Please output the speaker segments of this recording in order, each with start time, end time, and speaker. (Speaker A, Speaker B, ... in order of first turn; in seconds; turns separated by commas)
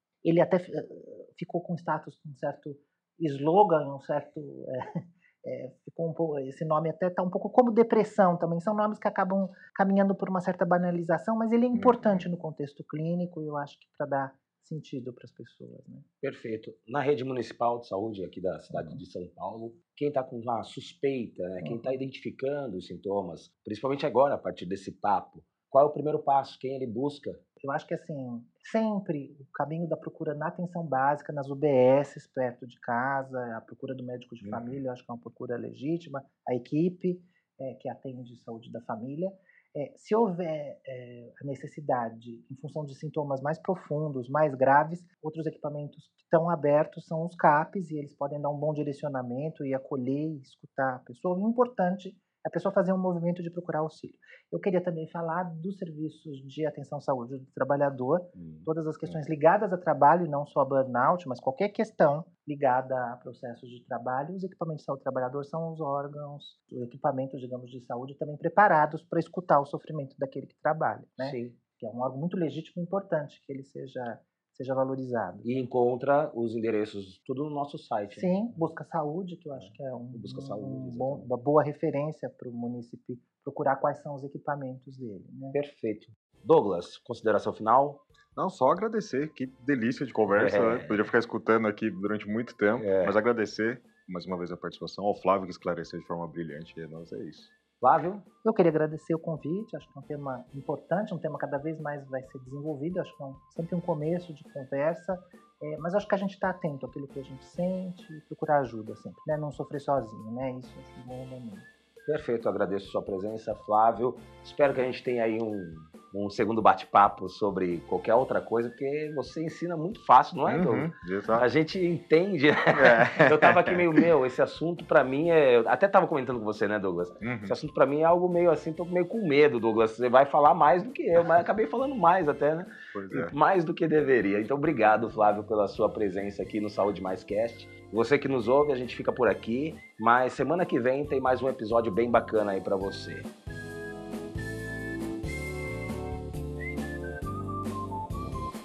Speaker A: 0.2-16.0, Speaker B: 11.7-12.2, Speaker C: 16.2-27.4, Speaker A: 18.7-19.0, Speaker A: 21.6-22.0, Speaker A: 27.6-75.5, Speaker B: 34.4-34.8, Speaker C: 58.3-58.7, Speaker C: 71.2-71.5, Speaker C: 75.4-78.5, Speaker A: 78.1-85.6, Speaker C: 79.5-81.3, Speaker C: 85.5-88.0, Speaker B: 88.3-97.5, Speaker C: 90.3-91.0, Speaker C: 92.7-93.1, Speaker C: 97.8-98.2, Speaker A: 98.4-111.7, Speaker C: 112.0-143.3, Speaker B: 120.5-121.5, Speaker B: 122.7-124.1, Speaker B: 127.2-127.5, Speaker B: 132.9-133.3